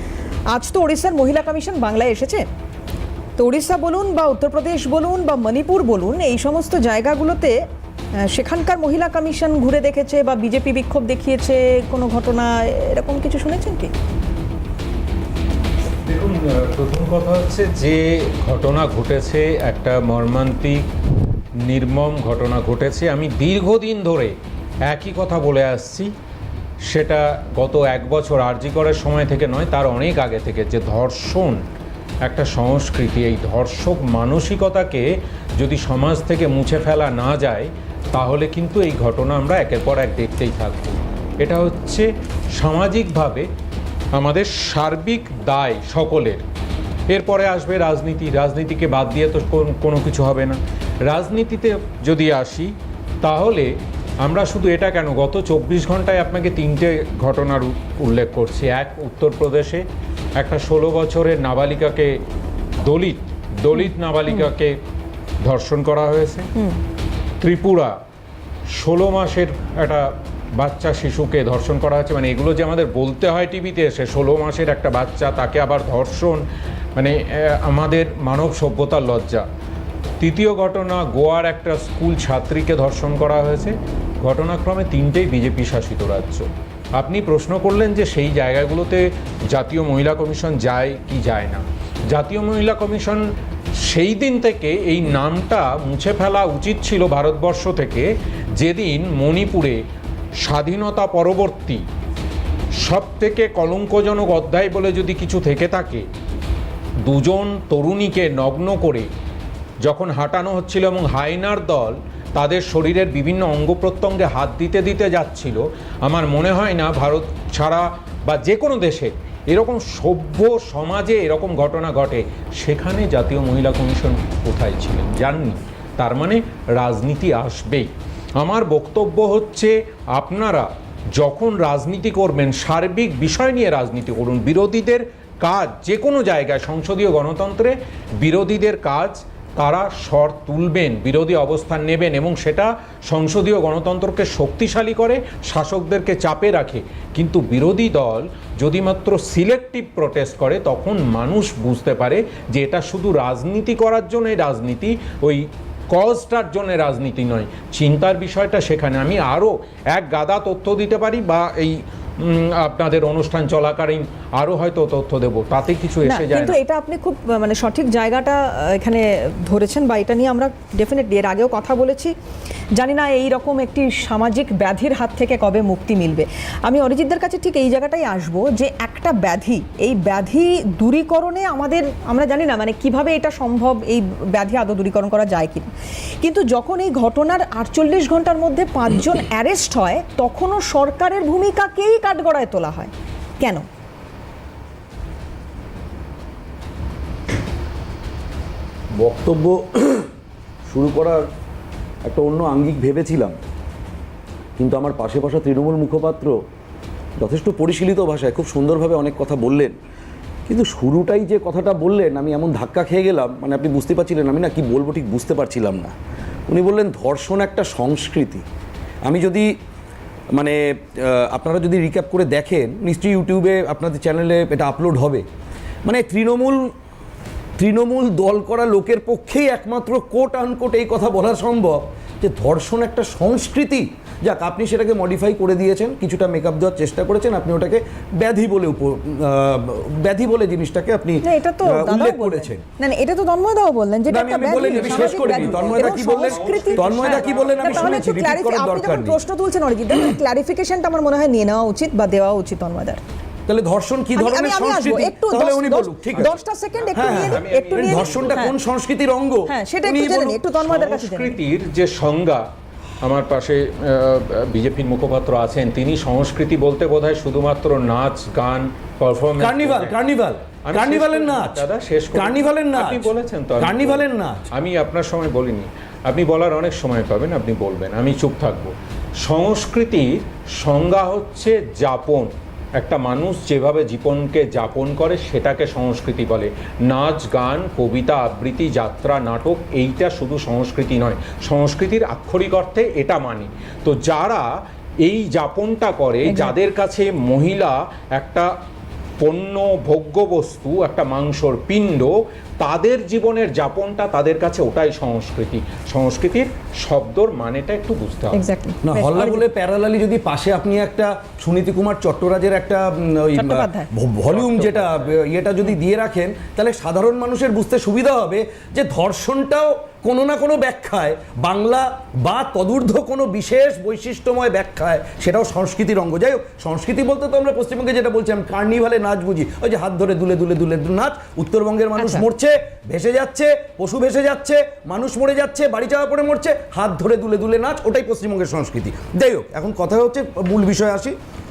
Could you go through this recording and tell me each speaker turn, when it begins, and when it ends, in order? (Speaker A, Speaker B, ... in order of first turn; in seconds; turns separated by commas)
Speaker A: 0.5-2.4, Speaker A: 3.4-7.5, Speaker A: 8.2-13.9, Speaker B: 16.0-20.8, Speaker B: 21.6-24.3, Speaker B: 24.9-26.1, Speaker B: 26.9-31.6, Speaker B: 32.2-35.0, Speaker B: 35.6-43.5, Speaker B: 44.1-46.4, Speaker B: 47.1-53.7, Speaker B: 54.2-59.8, Speaker B: 60.4-62.2, Speaker B: 62.8-64.8, Speaker B: 65.4-66.5, Speaker B: 67.4-67.9, Speaker B: 68.7-76.4, Speaker B: 77.0-79.4, Speaker B: 80.2-93.2, Speaker B: 93.8-99.8, Speaker B: 100.4-101.8, Speaker B: 102.8-106.0, Speaker B: 107.0-109.1, Speaker B: 109.8-166.6, Speaker A: 166.0-172.1, Speaker A: 172.7-185.7, Speaker A: 186.2-193.6, Speaker C: 199.0-200.1, Speaker C: 200.7-201.2, Speaker C: 202.1-203.3, Speaker C: 204.6-206.4, Speaker C: 207.2-209.7, Speaker C: 210.5-215.9, Speaker C: 216.5-218.4, Speaker C: 219.0-219.5, Speaker C: 220.3-225.2, Speaker C: 225.8-226.7, Speaker C: 227.6-242.6, Speaker A: 241.2-253.0, Speaker C: 244.1-249.2, Speaker B: 244.6-248.0, Speaker C: 253.5-256.3, Speaker A: 254.2-258.5, Speaker B: 256.1-258.5, Speaker C: 256.9-260.4, Speaker A: 259.5-261.4, Speaker B: 260.6-262.4, Speaker B: 263.0-269.9, Speaker C: 269.4-271.6, Speaker B: 270.6-294.5, Speaker C: 272.1-274.5, Speaker B: 295.0-298.5, Speaker A: 296.2-296.5, Speaker B: 299.2-308.4, Speaker A: 308.3-309.4, Speaker C: 308.8-341.1, Speaker A: 313.3-313.9, Speaker B: 314.3-315.1, Speaker A: 332.0-332.2